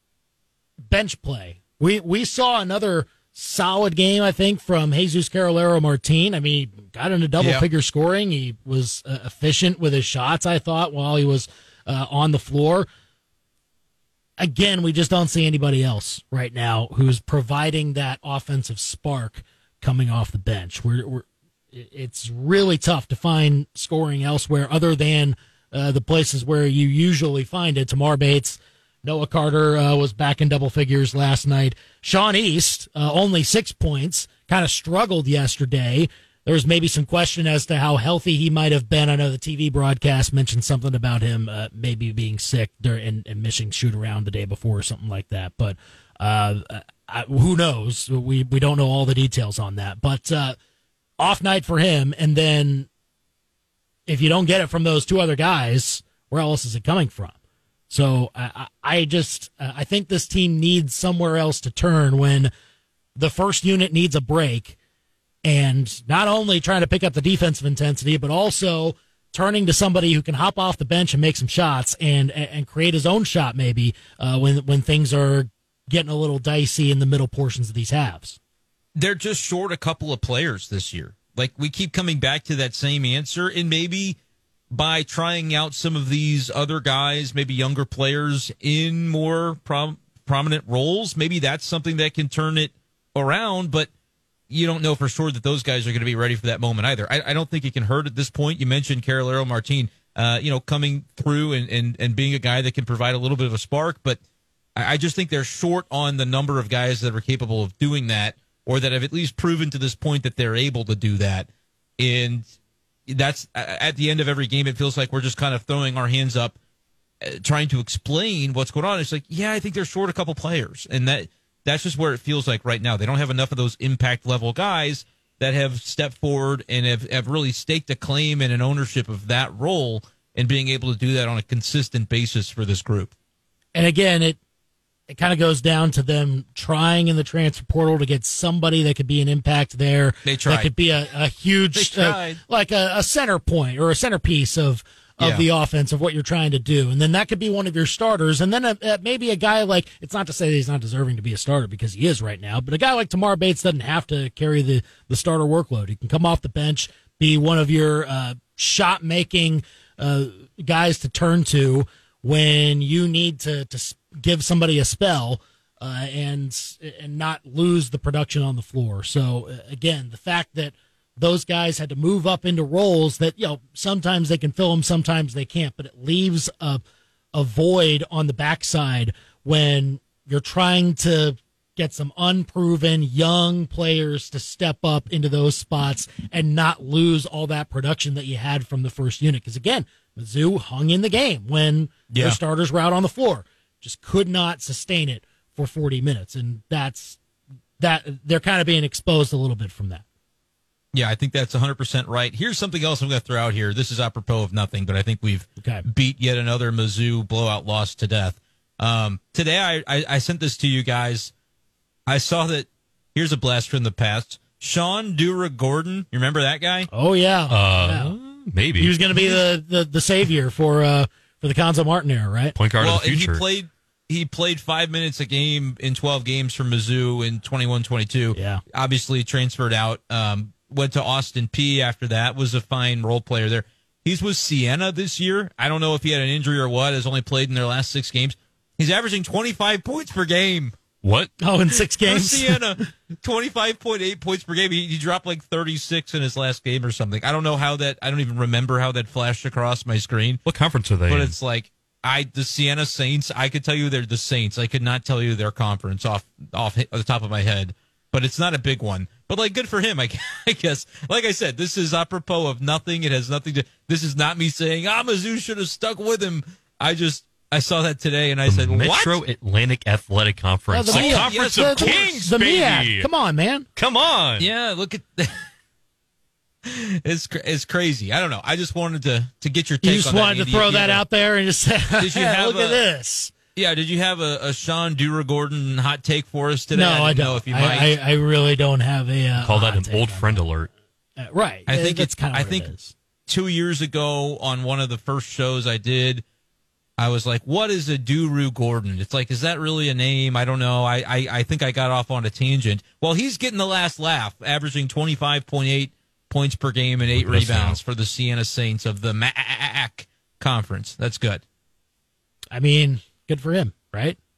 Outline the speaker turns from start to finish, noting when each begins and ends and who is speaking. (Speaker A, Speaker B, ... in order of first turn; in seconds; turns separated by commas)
Speaker A: 0.9-12.9, Speaker B: 7.4-7.7, Speaker A: 14.4-50.6, Speaker A: 51.2-52.9, Speaker A: 54.1-57.4, Speaker A: 57.9-62.5, Speaker A: 63.2-64.8, Speaker A: 65.5-78.4, Speaker B: 79.0-84.2, Speaker B: 84.7-93.9, Speaker B: 94.5-104.2, Speaker B: 104.8-112.5, Speaker B: 113.1-116.6, Speaker B: 117.2-133.1, Speaker A: 133.8-134.4, Speaker A: 135.1-176.8, Speaker B: 140.3-140.7, Speaker B: 141.8-142.4, Speaker B: 145.2-145.5, Speaker A: 177.3-197.2, Speaker B: 192.1-192.4, Speaker A: 197.8-200.0, Speaker B: 200.9-211.3, Speaker B: 212.1-216.9, Speaker A: 216.9-218.2, Speaker C: 217.5-219.0, Speaker A: 218.8-222.6, Speaker C: 222.6-223.4, Speaker B: 222.8-240.8, Speaker A: 228.3-228.6, Speaker C: 241.0-241.3, Speaker A: 241.4-242.6, Speaker B: 242.0-250.4, Speaker C: 250.5-251.3, Speaker B: 251.1-269.2, Speaker C: 268.5-273.1, Speaker A: 270.7-273.7, Speaker B: 270.9-272.2, Speaker C: 273.8-274.5, Speaker B: 274.4-275.4, Speaker B: 276.6-281.0, Speaker A: 279.8-283.3, Speaker B: 282.0-282.8, Speaker B: 283.6-288.0, Speaker A: 286.7-290.4, Speaker C: 289.4-290.7, Speaker A: 291.2-292.9, Speaker B: 291.7-292.7, Speaker B: 293.3-296.2, Speaker B: 297.0-311.4, Speaker C: 307.1-307.8, Speaker A: 312.5-314.2